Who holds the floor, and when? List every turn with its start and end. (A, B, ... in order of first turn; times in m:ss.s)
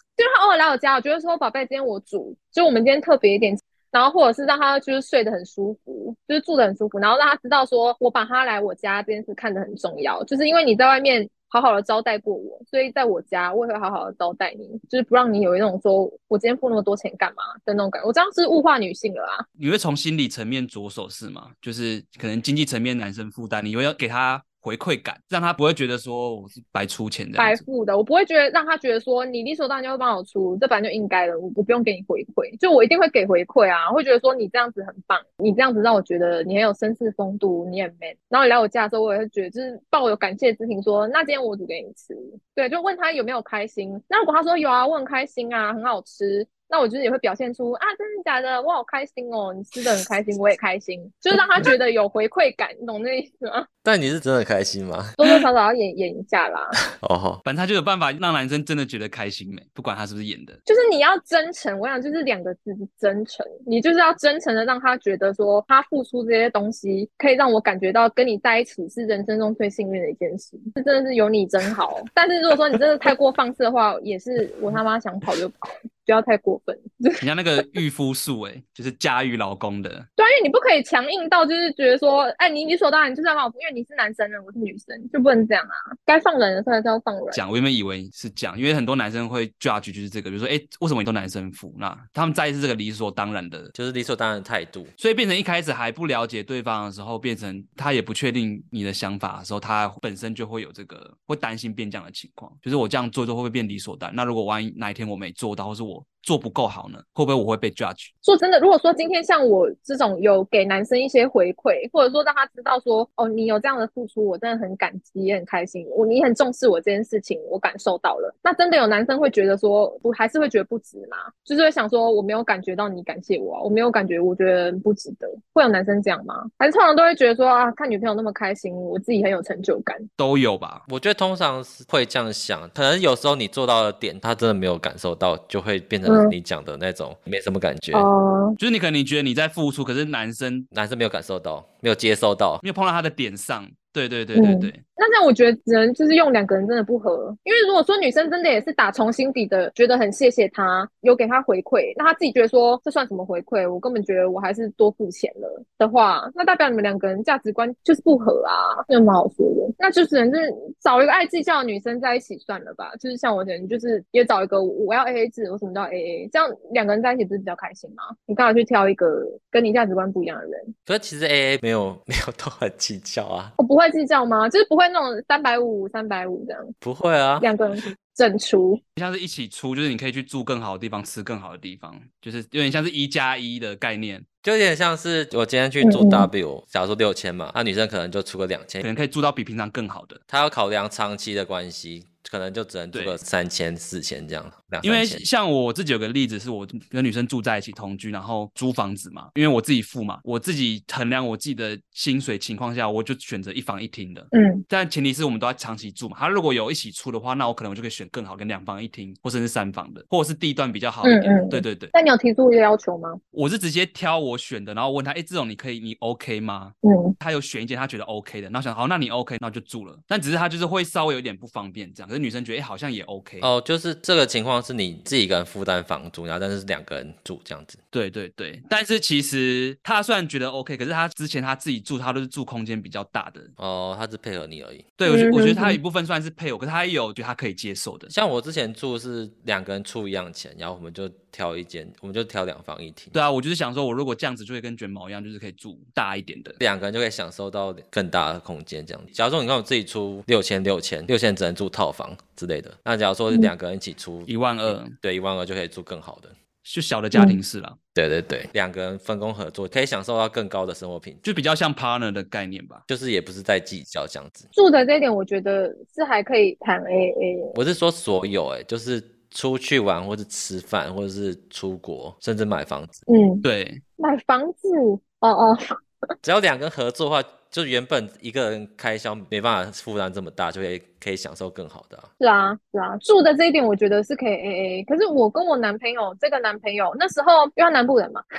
0:00.2-0:19.4 A
0:19.6-0:27.6 B
0:27.4-0:53.7 A
0:53.8-0:55.2 C
0:55.2-0:56.8 A
0:57.0-0:57.4 C
0:57.4-1:00.6 B
1:00.6-1:17.7 A
1:17.2-1:20.1 B
1:20.2-1:27.4 A
1:27.3-1:33.7 B
1:33.7-1:34.9 C
1:35.0-1:48.1 B
1:48.2-2:10.1 A
2:10.2-2:10.8 B
2:10.9-2:18.1 C
2:16.0-2:16.3 A
2:17.9-2:18.6 A
2:18.6-2:20.7 B
2:20.7-2:22.6 C
2:22.6-2:24.8 B
2:24.3-2:50.7 A
2:50.9-2:53.5 C
2:53.6-2:56.7 A
2:56.8-2:57.5 C
2:57.4-2:58.8 A
2:59.0-3:04.2 B
3:04.4-3:08.8 C
3:05.8-3:06.3 A
3:08.8-3:10.2 B
3:10.3-3:15.2 C
3:12.9-3:13.2 B
3:14.8-3:31.9 B
3:24.3-3:24.6 A
3:31.0-3:33.2 A
3:33.3-3:43.5 B
3:36.8-3:37.2 A
3:43.4-3:47.8 C
3:47.9-3:53.5 B
3:53.6-3:54.9 C
3:55.0-3:58.1 B
3:55.0-3:55.8 A
3:58.1-4:03.1 C
4:03.1-4:06.6 B
4:06.6-4:16.3 C
4:14.3-4:15.0 B
4:16.6-4:17.8 B
4:17.1-4:17.4 A
4:17.9-4:21.2 C
4:21.2-4:22.8 B
4:22.9-4:24.5 C
4:24.5-4:27.5 A
4:27.5-4:33.0 C
4:33.1-4:33.4 A
4:33.4-4:33.8 B
4:34.0-4:35.6 A
4:36.2-4:42.1 C
4:42.2-4:48.2 A